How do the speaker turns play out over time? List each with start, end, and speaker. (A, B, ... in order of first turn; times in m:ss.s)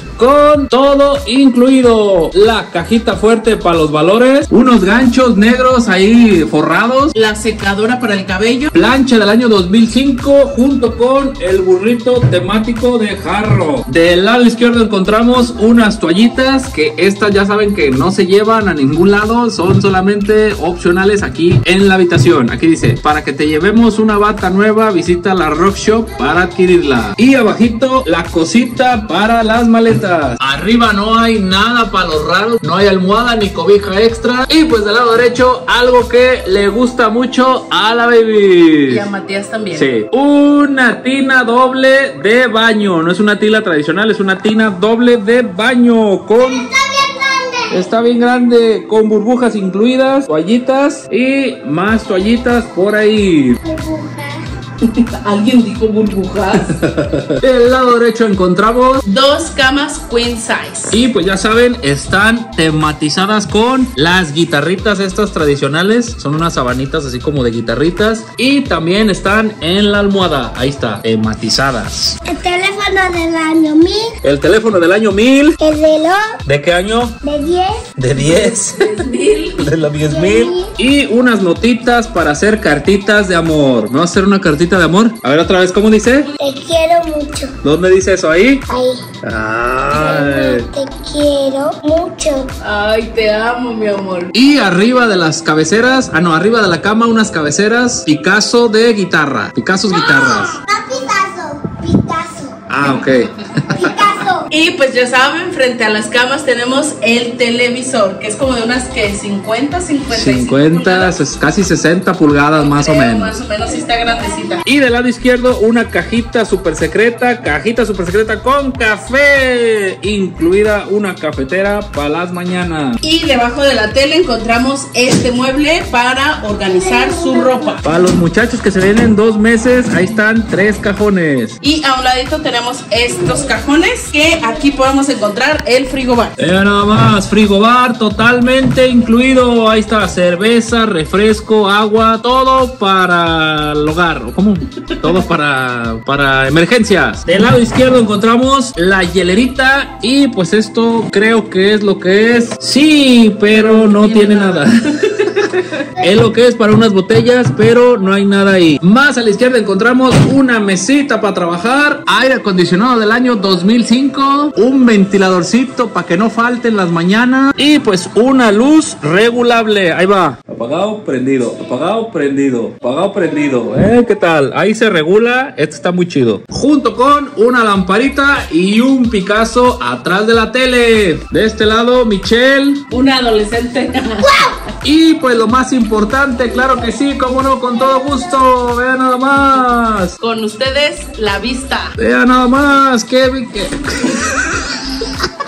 0:00.2-0:07.1 A
0:07.1-0:08.7 B
0:08.7-0:39.0 A
0:38.9-0:39.9 B
0:39.7-0:46.7 A
0:46.4-0:47.8 C
0:47.7-0:53.6 A
0:53.6-0:54.4 C
0:54.8-0:56.7 B
0:56.5-0:59.0 A
0:59.0-1:01.0 B
1:00.9-1:12.2 A
1:12.2-1:14.1 C
1:14.2-1:15.6 A
1:15.6-1:16.3 C
1:16.4-1:17.2 A
1:17.2-1:17.9 C
1:18.0-1:19.0 A
1:18.2-1:19.7 B
1:19.6-1:26.3 A
1:20.0-1:20.7 C
1:26.4-1:27.6 C
1:27.6-1:28.6 A
1:28.7-1:29.1 C
1:29.2-1:30.7 A
1:29.9-1:32.5 C
1:32.6-1:34.3 B
1:34.3-1:40.6 A
1:39.9-1:42.6 C
1:42.7-1:44.0 A
1:43.7-1:44.5 C
1:44.5-1:51.1 B
1:50.1-1:53.4 A
1:52.5-1:54.6 B
1:53.6-1:54.6 C
1:54.6-2:03.0 A
2:03.0-2:07.8 B
2:07.0-2:07.6 C
2:07.8-2:11.5 A
2:11.6-2:16.3 B
2:16.4-3:02.8 A
2:24.9-2:25.1 B
2:33.5-2:35.8 B
3:02.9-3:04.6 B
3:04.8-3:10.2 A
3:10.2-3:11.9 B
3:12.0-3:15.2 A